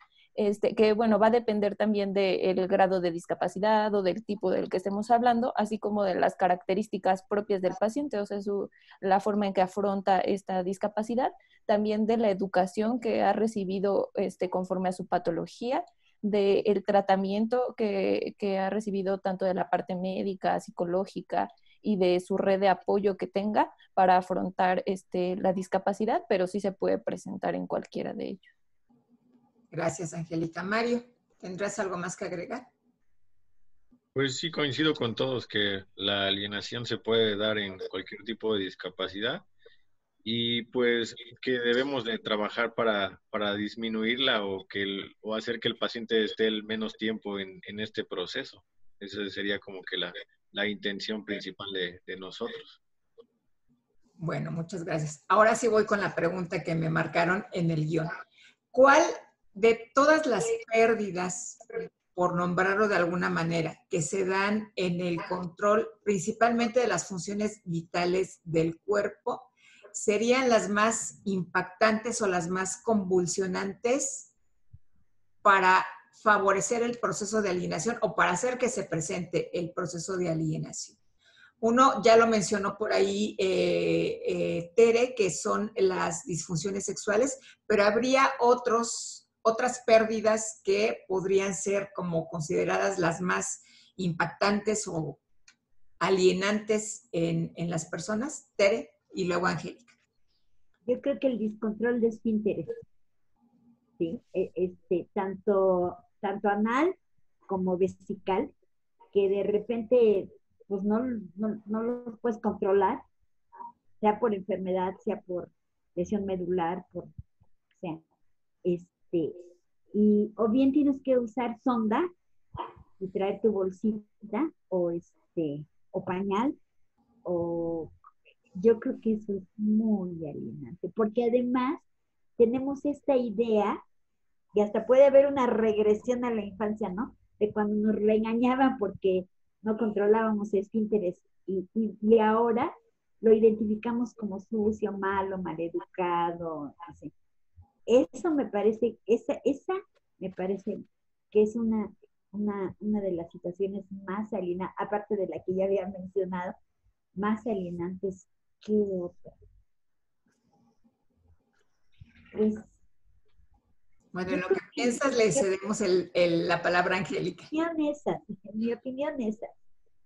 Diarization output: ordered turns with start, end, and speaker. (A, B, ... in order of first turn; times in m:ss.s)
0:00.4-0:28.5 A
0:29.7-0:32.7 B
0:34.2-0:39.4 C
0:40.2-0:52.8 C
0:54.2-0:58.1 B
0:58.7-1:14.3 B
1:15.4-1:21.0 B
1:21.6-1:35.2 B
1:36.0-1:40.0 B
1:40.9-1:42.8 D
1:44.0-1:47.0 D
1:47.5-1:48.5 D
1:49.1-1:53.0 D
1:54.0-1:57.1 D
1:57.8-1:58.0 D
1:58.6-1:59.4 D
1:59.9-2:02.1 D
2:03.0-2:06.6 D
2:07.2-2:07.9 D
2:08.5-2:11.8 D
2:12.4-2:13.8 D
2:14.5-2:27.1 D
2:27.9-2:36.6 D
2:37.2-2:39.4 D
2:42.3-2:42.8 D
2:44.1-2:47.5 B
2:44.3-2:45.4 D
2:47.5-2:49.5 D